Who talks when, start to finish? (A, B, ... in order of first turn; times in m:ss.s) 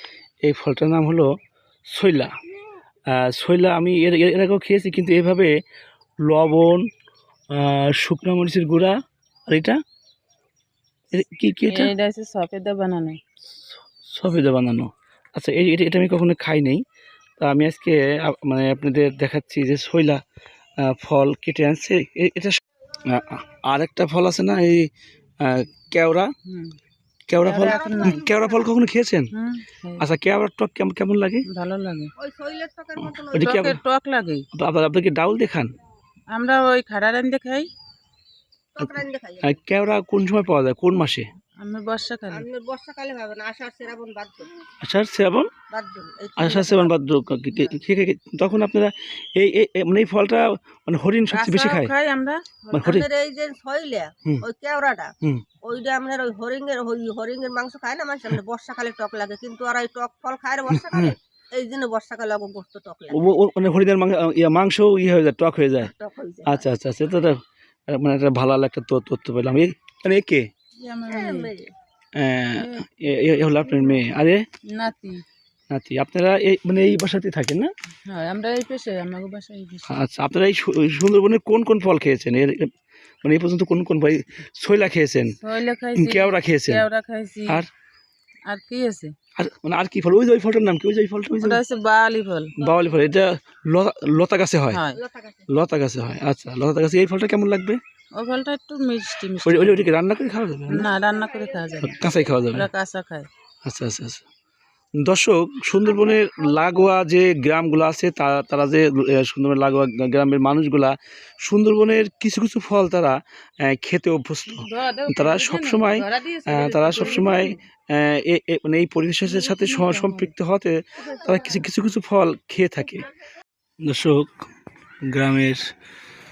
0:00.4-0:01.3 A
0:01.9-0:02.3 A
0:03.1-0:05.5 A
0:06.3-0:06.9 A
0:07.5-0:09.0 A
0:09.5-0:09.8 A
0:11.1-0:11.9 A
0:11.7-0:13.2 B
0:13.7-0:16.8 A
0:17.4-0:20.2 A
0:20.8-0:24.9 A
0:25.4-0:26.3 A
0:26.5-0:26.8 B
0:27.3-0:29.3 A
0:27.4-0:28.2 B
0:27.5-0:28.7 C
0:29.4-0:30.0 B
0:30.0-0:31.4 A
0:31.5-0:32.1 B
0:32.2-0:33.6 C
0:33.0-0:33.8 A
0:33.4-0:34.5 B
0:34.5-0:35.7 A
0:36.3-0:37.7 B
0:38.8-0:39.6 C
0:38.8-0:41.3 A
0:41.6-0:42.4 B
0:42.3-0:44.5 C
0:44.8-0:45.5 A
0:45.7-0:46.9 C
0:46.4-0:51.9 A
0:51.3-0:52.5 B
0:52.7-0:55.1 C
0:52.7-0:53.1 A
0:55.6-1:03.3 C
1:00.7-1:01.1 A
1:03.1-1:05.9 A
1:05.8-1:06.6 C
1:06.5-1:10.5 A
1:10.8-1:11.5 B
1:11.1-1:11.7 C
1:12.2-1:14.4 A
1:14.7-1:15.2 B
1:15.7-1:17.7 A
1:18.1-1:19.9 B
1:19.9-1:22.7 A
1:23.2-1:25.4 A
1:25.4-1:27.6 B
1:26.0-1:26.8 A
1:28.5-1:29.1 B
1:29.4-1:31.6 A
1:31.4-1:32.5 B
1:32.6-1:34.8 A
1:32.6-1:33.1 C
1:34.7-1:35.0 B
1:34.9-1:35.5 C
1:35.5-1:37.8 A
1:38.2-1:39.9 B
1:39.4-1:40.9 A
1:40.7-1:43.3 B
1:41.3-1:42.2 C
1:41.8-1:42.7 A
1:43.6-1:44.2 A
1:45.0-2:03.1 A
1:54.5-1:57.6 B
1:59.2-2:00.3 B
2:03.8-2:04.4 A
2:05.1-2:05.6 A